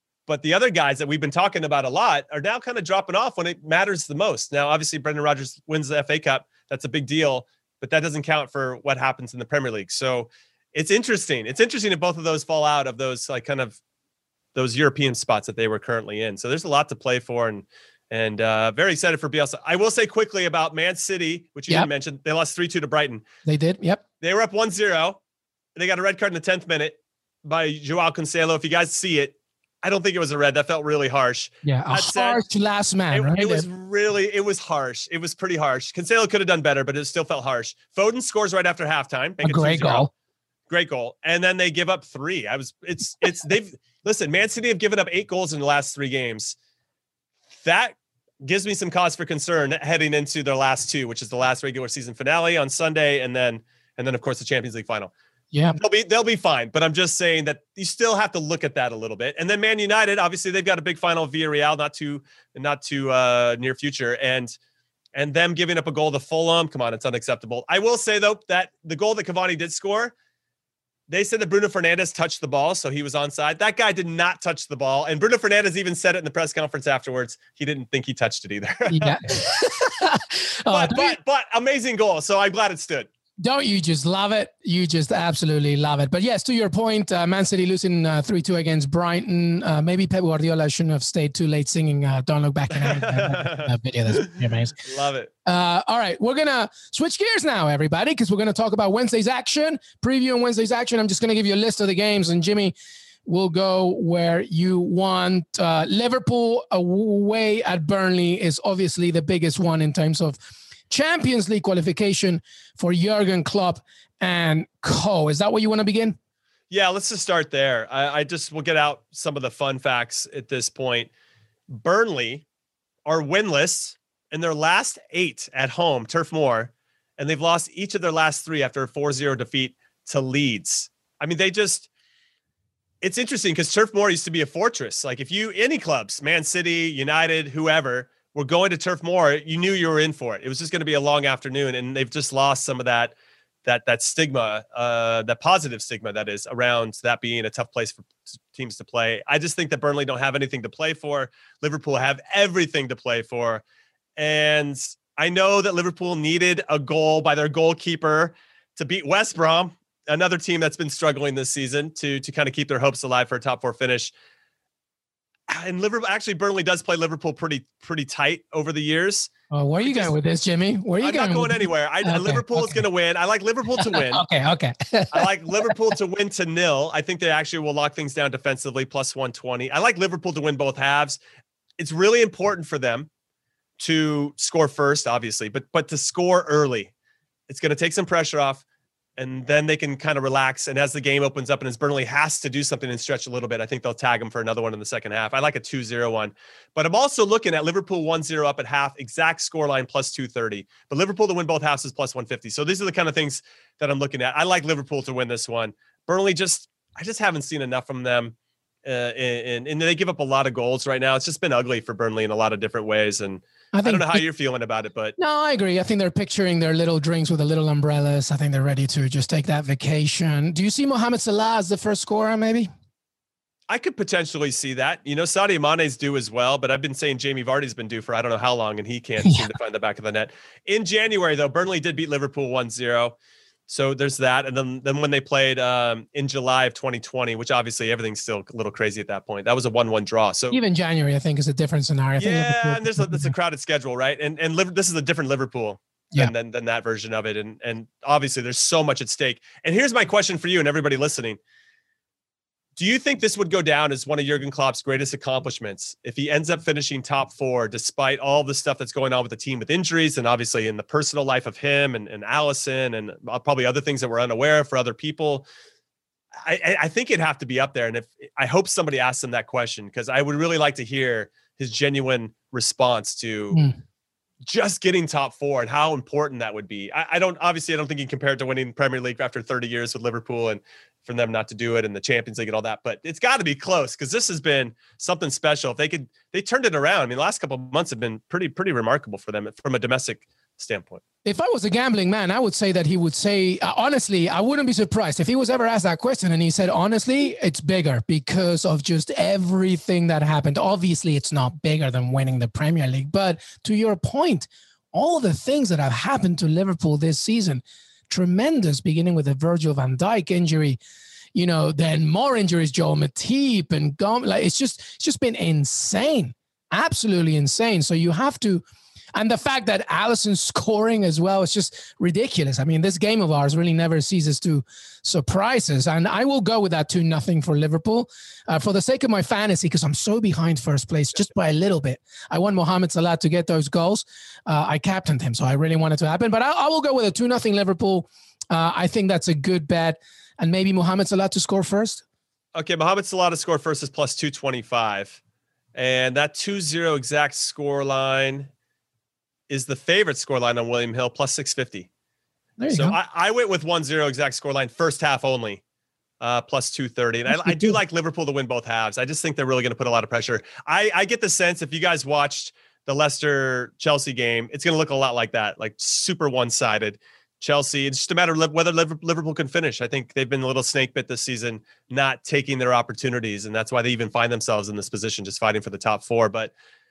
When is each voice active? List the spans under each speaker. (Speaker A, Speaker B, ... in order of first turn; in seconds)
Speaker A: 0.3-13.8, 14.6-23.2, 24.2-25.2, 25.8-32.4, 33.1-40.1, 40.7-46.5, 47.6-55.1, 55.8-64.5, 65.2-70.1, 71.1-79.5, 80.7-83.1, 92.7-95.3, 116.7-121.1, 121.7-122.4, 123.0-131.9, 133.0-143.1, 143.7-153.6, 154.2-164.1, 165.5-169.3, 169.8-170.1, 171.0-174.3, 175.1-181.2, 181.8-183.1, 183.8-186.9, 187.5-188.6, 189.2-215.2, 223.7-233.2, 233.7-240.6, 242.2-251.4, 252.8-265.5, 266.4-273.6, 274.5-291.0, 342.5-345.2, 345.8-348.5, 349.5-351.9, 352.7-355.6, 356.2-376.5
Speaker B: 23.5-24.0, 31.6-33.7, 39.4-40.1, 55.5-55.8, 78.9-81.2, 83.4-94.8, 95.5-102.7, 103.3-110.4, 110.9-116.2, 169.5-172.8, 173.8-175.7, 213.7-214.2, 215.2-222.7, 229.2-229.5, 240.5-243.3, 291.2-310.8, 311.3-318.6, 319.1-342.0, 352.6-353.0, 357.3-357.8